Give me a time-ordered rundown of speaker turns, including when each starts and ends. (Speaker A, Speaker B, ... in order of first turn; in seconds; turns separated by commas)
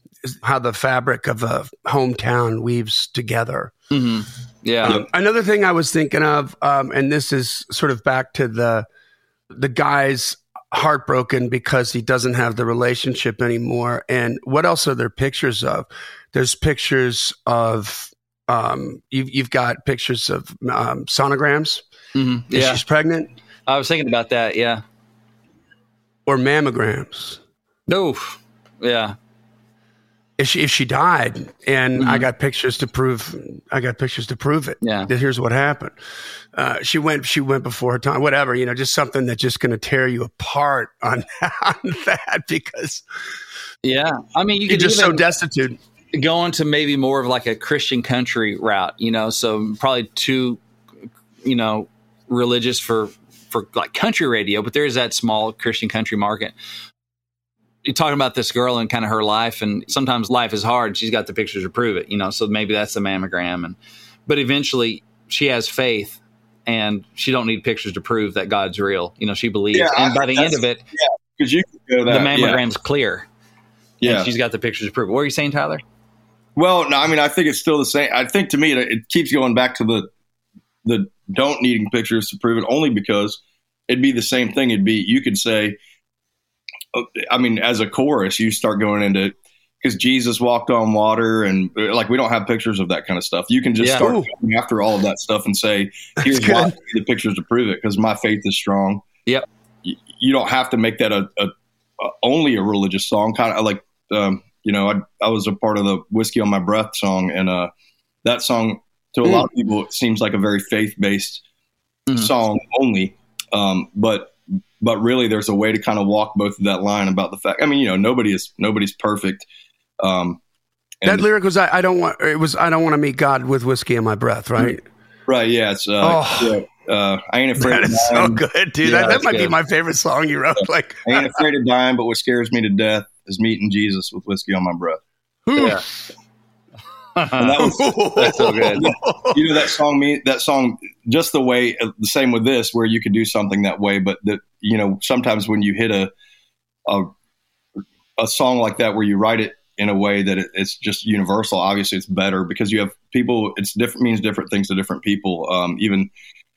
Speaker A: 0.2-3.7, Speaker B: 3.9-5.0, Speaker A: 4.8-8.9, Speaker A: 9.5-21.8, Speaker B: 22.1-22.8, Speaker A: 22.5-23.3, Speaker B: 23.7-24.8, Speaker A: 26.3-27.4, Speaker B: 27.9-29.1, Speaker A: 30.4-36.0, Speaker B: 32.0-32.3, Speaker B: 34.8-35.1, Speaker A: 36.5-43.1, Speaker B: 43.8-45.3, Speaker A: 44.7-45.8, Speaker B: 46.1-50.6, Speaker B: 51.4-56.5, Speaker B: 57.9-70.8, Speaker C: 69.7-72.6, Speaker B: 72.1-73.3, Speaker C: 74.0-74.3, Speaker B: 74.0-75.8, Speaker C: 76.6-80.1, Speaker C: 80.8-85.8, Speaker C: 86.9-99.0, Speaker A: 94.0-94.3, Speaker A: 96.2-96.7, Speaker C: 99.8-107.7, Speaker C: 108.2-111.4, Speaker C: 112.1-119.5, Speaker C: 120.0-120.4, Speaker A: 121.0-124.8, Speaker C: 125.3-128.4, Speaker A: 126.0-126.6, Speaker A: 127.6-131.4, Speaker B: 128.8-129.6, Speaker C: 130.6-135.0, Speaker A: 135.5-135.8, Speaker B: 135.6-135.8, Speaker B: 137.2-138.9, Speaker C: 137.4-146.1, Speaker A: 137.6-139.7, Speaker C: 146.9-147.1, Speaker C: 148.2-156.1